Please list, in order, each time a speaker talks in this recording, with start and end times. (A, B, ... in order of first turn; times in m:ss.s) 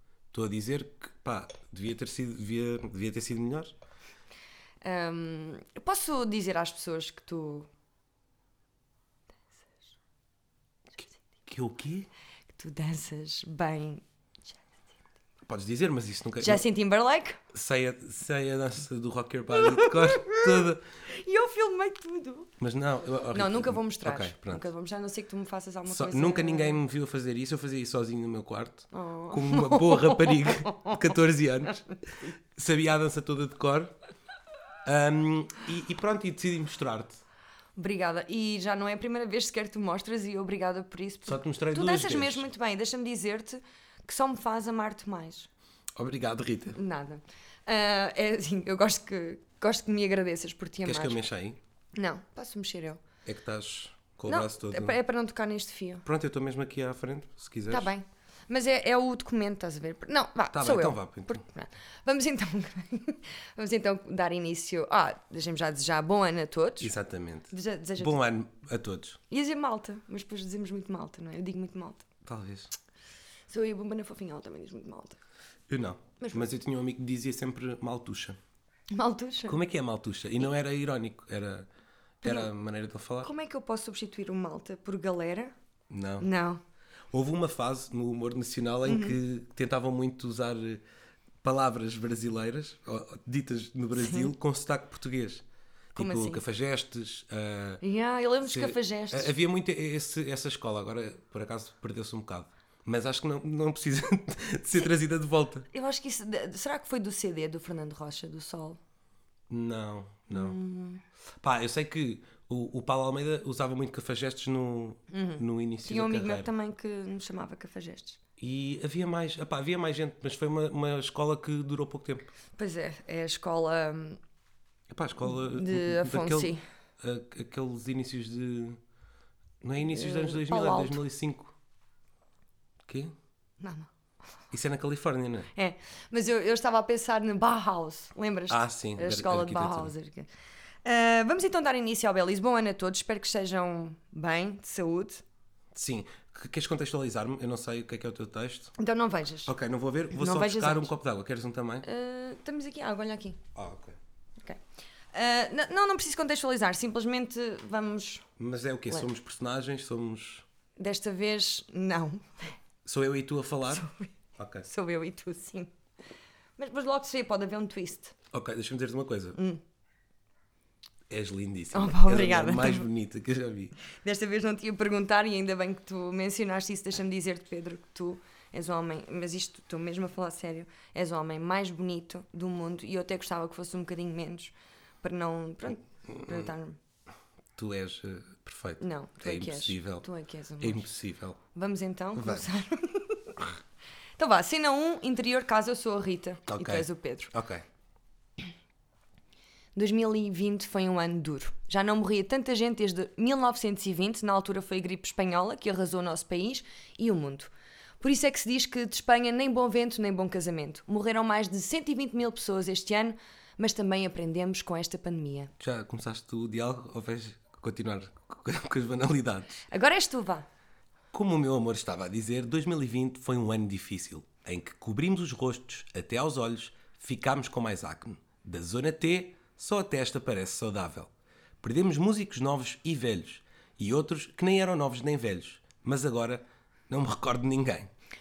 0:00.3-0:03.7 A
0:04.8-0:07.7 B
0:11.5-0:12.1 A
0:12.6-0:14.0 B
0:15.5-0:16.6 A
0:16.4-0:17.4 B
0:17.5-0:20.8 A
0:19.5-0:22.5 B
0:22.6-0:24.7 A
0:23.3-0:26.8 B
0:25.9-0:33.9 A
0:28.9-0:31.0 B
0:34.8-0:37.2 A
0:37.8-0:45.5 B
0:41.3-0:42.5 A
0:46.0-0:46.8 A
0:46.8-0:51.2 B
0:50.8-0:51.6 A
0:52.0-0:53.0 B
0:53.2-0:55.0 A
0:54.3-0:56.0 B
0:56.0-0:57.9 A
0:57.7-1:06.9 B
1:00.5-1:01.4 A
1:06.8-1:09.2 A
1:07.5-1:08.2 B
1:09.3-1:12.1 B
1:12.2-1:12.7 A
1:13.5-1:15.2 B
1:15.7-1:18.4 A
1:16.2-1:16.5 B
1:18.9-1:19.6 B
1:19.5-1:21.7 A
1:22.2-1:23.3 A
1:22.2-1:22.5 B
1:23.2-1:25.5 B
1:25.9-1:26.3 A
1:26.2-1:26.6 B
1:27.1-1:30.8 A
1:28.9-1:29.2 B
1:31.4-1:35.4 A
1:34.0-1:34.3 B
1:36.0-1:36.4 B
1:36.0-1:37.8 A
1:37.8-1:39.3 B
1:38.4-1:45.7 A
1:45.7-1:48.8 B
1:49.5-1:50.6 A
1:50.3-1:51.0 B
1:51.4-1:56.5 A
1:55.1-1:58.2 B
1:58.4-2:02.3 A
2:02.6-2:04.2 B
2:04.9-2:08.8 A
2:05.2-2:06.6 B
2:09.6-2:11.6 A
2:09.8-2:11.0 B
2:12.9-2:13.1 A
2:13.6-2:13.9 B
2:14.5-2:15.5 A
2:15.6-2:20.3 B
2:18.5-2:19.9 A
2:20.8-2:25.2 B
2:25.7-2:28.7 A
2:28.8-2:29.5 B
2:29.5-2:31.9 A
2:30.1-2:30.9 B
2:31.8-2:33.4 B
2:33.6-2:34.0 A
2:35.1-2:38.3 B
2:38.4-2:40.4 A
2:40.8-2:42.6 B
2:42.8-2:44.7 A
2:43.7-2:45.7 B
2:46.6-2:48.2 B
2:48.3-2:49.4 A
2:49.4-2:49.6 B
2:51.1-2:53.8 A
2:51.7-2:52.9 B
2:53.8-3:06.8 B
3:06.1-3:06.5 A
3:07.6-3:10.1 A
3:08.8-3:10.9 B
3:10.6-3:11.4 A
3:11.5-3:13.6 B
3:12.2-3:12.5 A
3:14.2-3:17.3 B
3:16.5-3:17.6 A
3:19.8-3:35.5 B
3:35.6-3:39.6 A
3:39.7-3:40.5 B
3:41.1-3:57.9 A